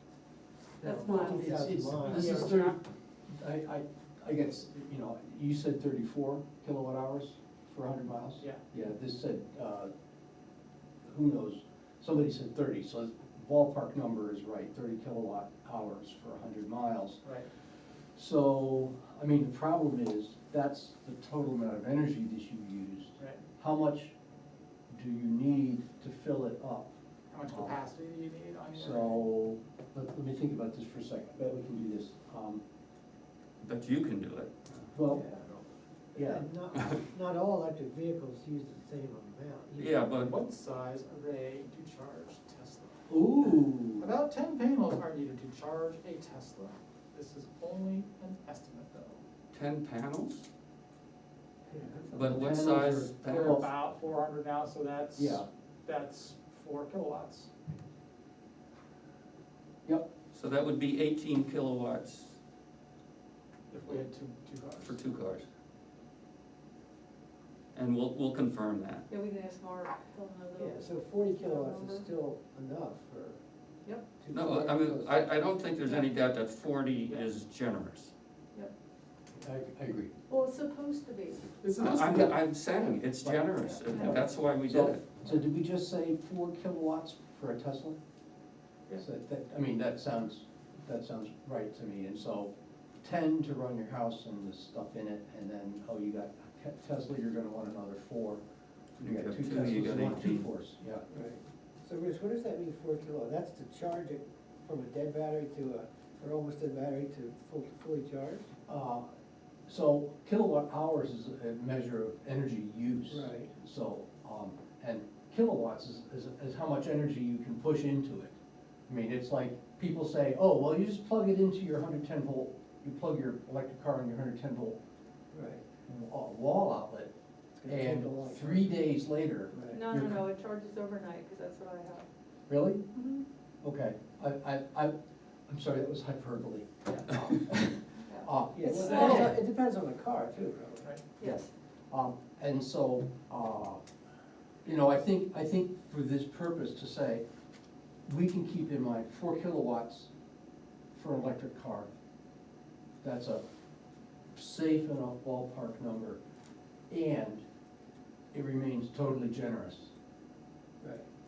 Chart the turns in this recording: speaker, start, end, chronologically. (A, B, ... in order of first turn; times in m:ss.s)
0:00.8-0:02.5 A
0:00.8-0:01.5 B
0:00.9-0:09.9 C
0:02.1-0:02.8 D
0:08.4-0:08.6 D
0:11.0-0:17.2 C
0:18.2-0:24.1 C
0:24.9-0:26.9 C
0:27.3-0:29.2 D
0:27.5-0:27.8 C
0:28.7-0:32.6 C
0:33.6-0:34.5 E
0:34.9-0:35.2 C
0:35.1-0:35.6 A
0:36.1-0:36.5 C
0:36.1-0:40.3 A
0:39.8-0:40.3 E
0:40.2-0:49.2 D
0:43.1-0:44.1 C
0:49.5-0:50.4 E
0:51.7-0:52.5 A
0:52.1-0:53.6 E
0:52.1-0:53.6 C
0:53.0-0:57.5 D
0:55.2-0:55.4 C
0:59.8-1:00.1 C
1:00.3-1:02.4 E
1:03.7-1:05.1 D
1:04.8-1:05.4 E
1:07.7-1:09.0 E
1:09.1-1:12.1 B
1:10.6-1:13.4 A
1:14.2-1:15.3 A
1:14.3-1:18.1 E
1:19.4-1:20.1 C
1:20.3-1:21.5 B
1:21.6-1:22.4 D
1:21.8-1:25.1 E
1:23.2-1:28.0 C
1:23.7-1:24.2 B
1:29.0-1:38.4 C
1:39.0-1:40.5 E
1:39.0-1:41.0 C
1:41.1-1:48.5 A
1:48.6-1:49.0 C
1:49.7-1:58.3 C
1:53.1-1:53.5 A
1:58.9-2:04.8 C
2:05.3-2:05.6 A
2:05.8-2:07.1 C
2:07.6-2:08.8 A
2:07.7-2:10.3 C
2:09.5-2:09.8 A
2:09.7-2:12.0 B
2:12.5-2:12.8 C
2:12.9-2:13.2 B
2:13.6-2:14.9 C
2:15.5-2:17.7 C
2:18.0-2:19.3 B
2:18.2-2:19.4 C
2:18.5-2:20.9 A
2:18.7-2:19.2 D
2:21.2-2:21.5 B
2:21.2-2:23.8 C
2:24.6-2:27.2 C
2:28.0-2:30.1 C
2:30.9-2:31.9 C
2:33.0-2:33.4 C
2:34.3-2:36.2 C
2:36.9-2:37.4 C
2:38.3-2:39.9 C
2:40.8-2:41.1 A